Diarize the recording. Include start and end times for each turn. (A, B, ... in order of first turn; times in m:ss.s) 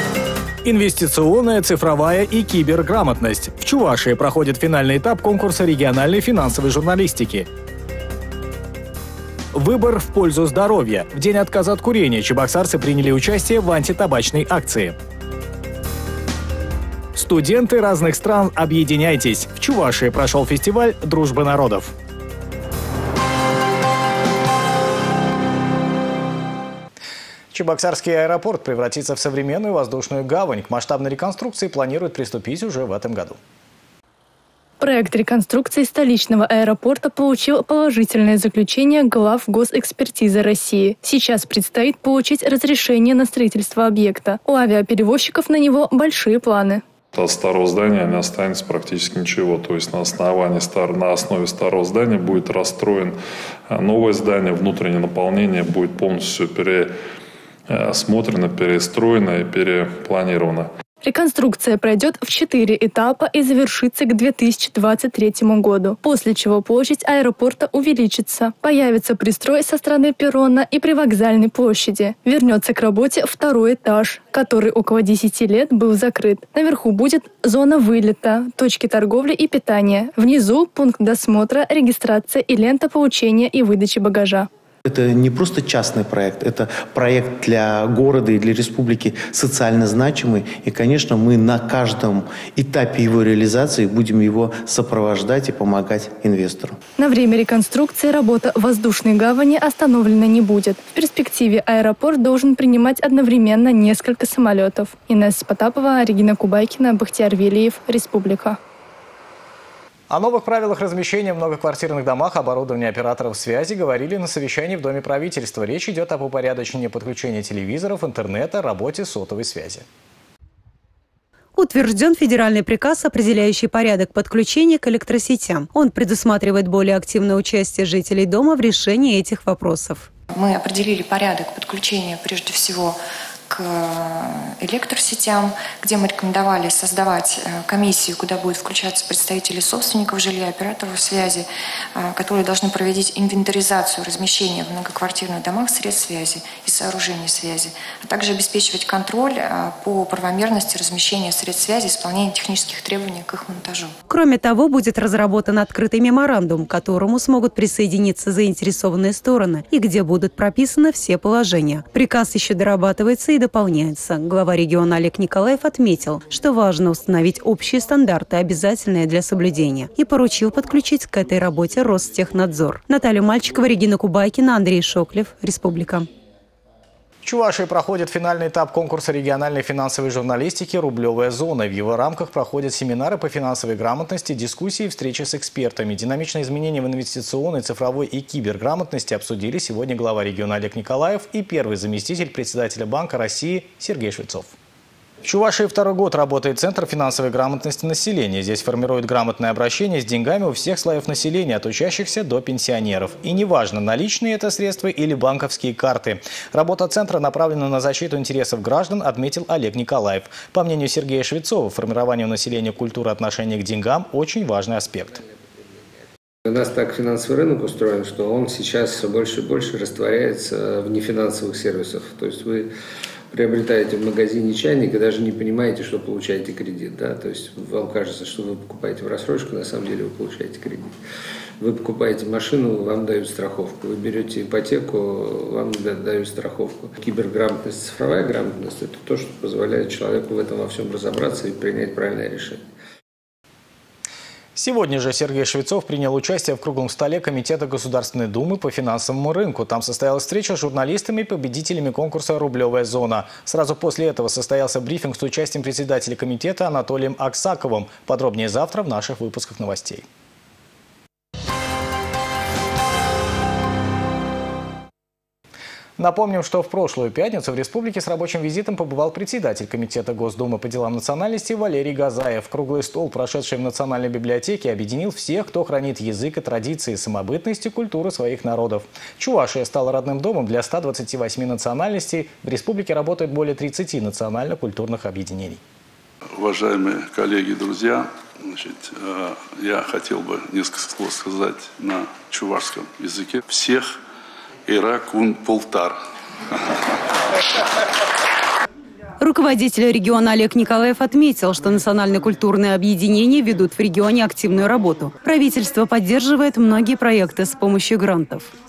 0:00.6-0:07.5 A
0:09.5-0:15.0 A
0:17.1-0:21.9 A
0:27.5-0:33.4 A
0:34.8-0:46.8 B
0:47.1-0:57.0 C
0:57.7-1:00.7 C
1:01.0-1:24.5 B
1:24.9-1:36.8 D
1:37.0-1:48.6 B
1:50.1-1:59.8 A
2:01.6-2:10.1 E
2:10.3-2:33.9 F
2:34.1-2:56.1 E
2:57.2-3:14.6 A
3:15.2-3:35.2 A
3:35.6-3:35.9 G
3:36.5-3:42.7 G
3:43.3-3:51.0 G
3:51.6-4:02.7 G
4:04.6-4:20.1 A
4:26.0-4:45.6 A
4:46.4-4:53.9 H
4:54.7-4:56.0 H
4:59.2-5:08.5 E